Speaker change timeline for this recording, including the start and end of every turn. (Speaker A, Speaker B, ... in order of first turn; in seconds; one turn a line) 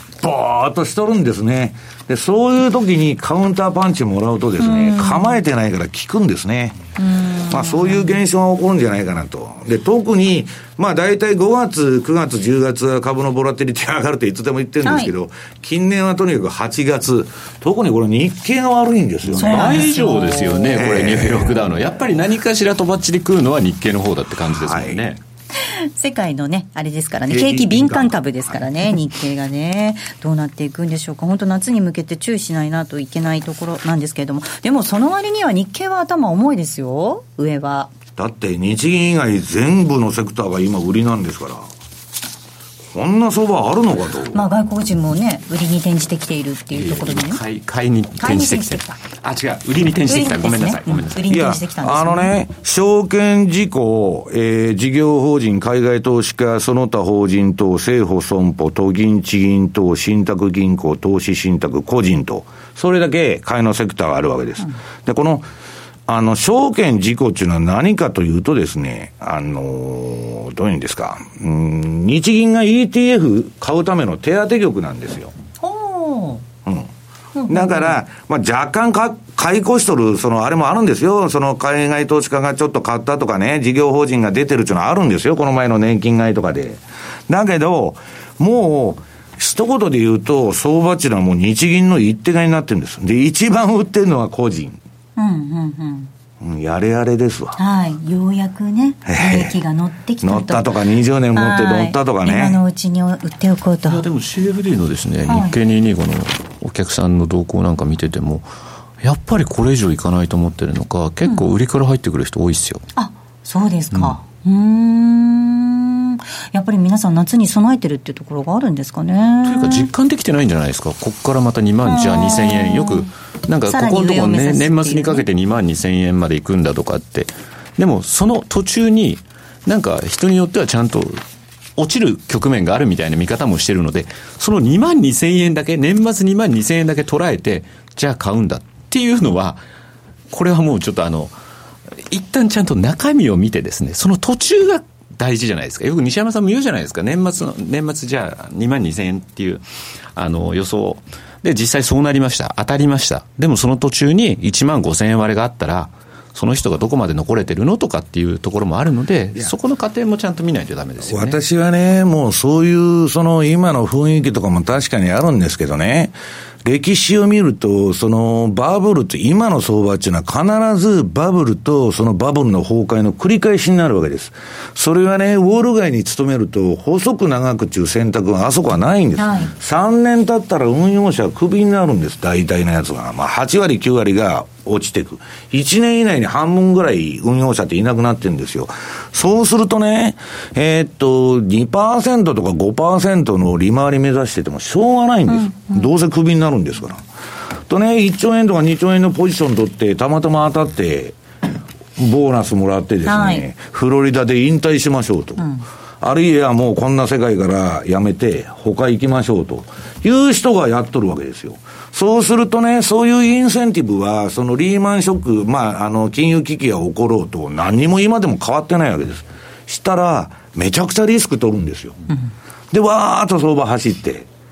Speaker A: 0.2-6.8
Speaker B: 4.6-5.4
Speaker B: 7.0-8.2
Speaker A: 7.5-19.9
Speaker B: 14.8-15.1
Speaker C: 19.3-25.2
Speaker B: 19.4-20.8
Speaker A: 20.8-21.6
Speaker A: 24.5-25.0
Speaker B: 25.9-37.9
Speaker A: 27.3-28.1
Speaker A: 38.1-41.7
Speaker A: 42.9-44.4
Speaker B: 44.3-47.4
Speaker C: 46.7-51.2
Speaker B: 48.2-49.0
Speaker B: 50.1-52.3
Speaker A: 51.3-65.5
Speaker A: 66.1-75.3
Speaker B: 75.6-76.4
Speaker A: 76.6-76.9
Speaker B: 77.3-77.9
Speaker A: 77.5-94.8
Speaker B: 95.2-96.1
Speaker A: 96.4-97.6
Speaker B: 97.6-100.7
Speaker A: 99.0-99.5
Speaker A: 100.2-102.6
Speaker B: 101.3-104.0
Speaker C: 103.9-108.5
Speaker B: 105.3-105.6
Speaker C: 109.0-112.8
Speaker B: 113.0-119.9
Speaker C: 113.9-114.2
Speaker C: 119.4-131.2
Speaker B: 121.8-123.1
Speaker B: 123.7-125.2
Speaker C: 131.8-139.6
Speaker C: 140.3-141.3
Speaker C: 142.1-149.6
Speaker C: 150.2-161.4
Speaker A: 161.0-197.0
Speaker B: 179.2-179.5
Speaker B: 195.3-195.8
Speaker A: 197.7-201.2
Speaker A: 202.0-205.5
Speaker B: 203.1-203.4
Speaker B: 205.4-205.6
Speaker A: 206.0-221.9
Speaker A: 222.7-224.3